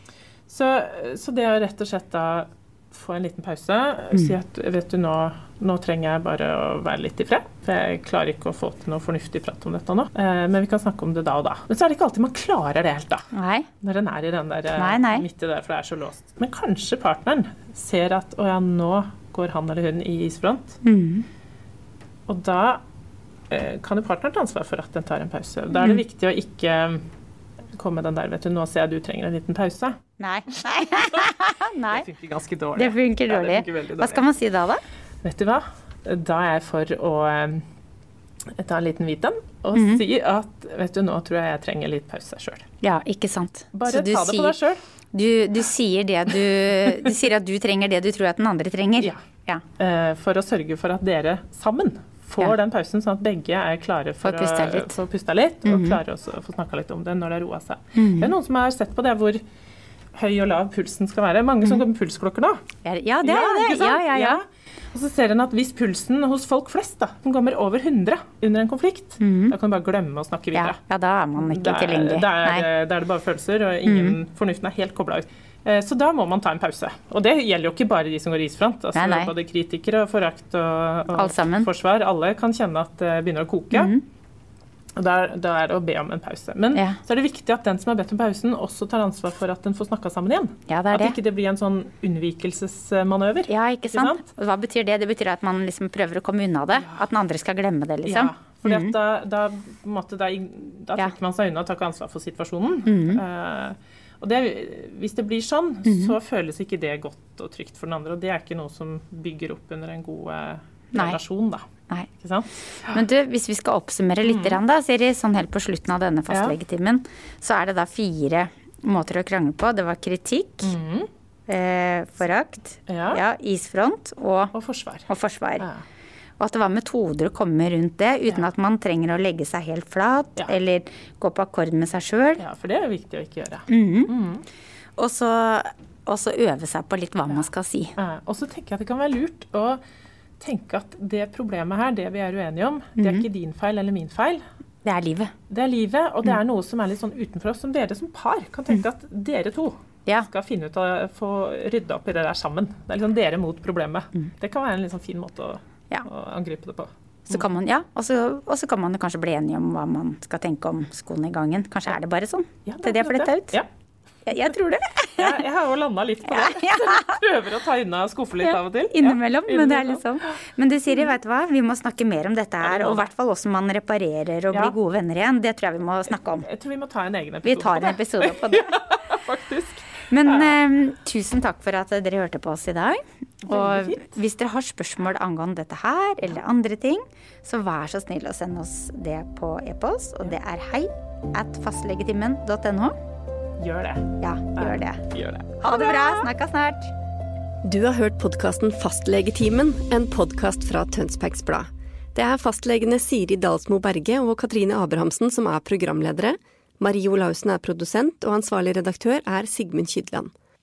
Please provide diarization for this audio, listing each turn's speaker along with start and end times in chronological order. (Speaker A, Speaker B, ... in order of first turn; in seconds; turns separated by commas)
Speaker A: 0.5-13.2, Speaker B: 13.3-13.7, Speaker A: 13.8-20.8, Speaker B: 14.8-15.2, Speaker B: 20.8-21.2, Speaker A: 22.3-22.8, Speaker A: 23.5-27.0, Speaker A: 27.7-30.0, Speaker B: 30.2-32.0, Speaker A: 31.9-34.2, Speaker B: 32.7-34.8, Speaker A: 35.2-37.6, Speaker A: 38.6-42.6, Speaker B: 39.7-40.0, Speaker B: 42.8-44.5, Speaker A: 43.7-44.8, Speaker B: 45.1-49.6, Speaker A: 49.8-59.4, Speaker B: 54.2-55.0, Speaker B: 55.6-56.0, Speaker B: 58.0-58.3, Speaker A: 60.1-62.6, Speaker B: 62.8-64.4, Speaker A: 63.2-70.8, Speaker B: 69.2-69.5, Speaker B: 70.5-72.7, Speaker A: 71.4-83.9, Speaker B: 73.8-74.2, Speaker B: 78.9-79.3, Speaker B: 81.1-81.7, Speaker B: 83.7-84.0, Speaker A: 85.0-94.2, Speaker B: 90.7-91.2, Speaker B: 93.5-98.9, Speaker A: 98.0-111.6, Speaker B: 102.9-103.2, Speaker B: 105.9-106.1, Speaker A: 112.2-112.5, Speaker B: 112.9-120.7, Speaker A: 114.2-114.6, Speaker A: 116.3-116.5, Speaker A: 120.6-121.1, Speaker B: 121.5-124.5, Speaker A: 122.9-123.2, Speaker A: 124.5-125.1, Speaker B: 125.1-125.7, Speaker B: 126.4-132.4, Speaker A: 132.4-134.4, Speaker B: 133.7-134.1, Speaker B: 135.0-137.9, Speaker A: 138.0-139.8, Speaker A: 140.4-144.4, Speaker B: 143.0-143.2, Speaker B: 144.8-145.3, Speaker A: 145.5-157.4, Speaker B: 157.3-163.6, Speaker A: 162.7-163.7, Speaker B: 164.2-165.4, Speaker A: 165.2-170.0, Speaker B: 166.3-167.1, Speaker B: 168.4-176.4, Speaker A: 172.6-173.1, Speaker A: 176.4-180.6, Speaker B: 177.4-178.7, Speaker B: 180.1-192.9, Speaker A: 183.4-184.1, Speaker A: 193.6-196.3, Speaker B: 194.2-195.0, Speaker B: 195.6-196.9, Speaker C: 197.6-210.3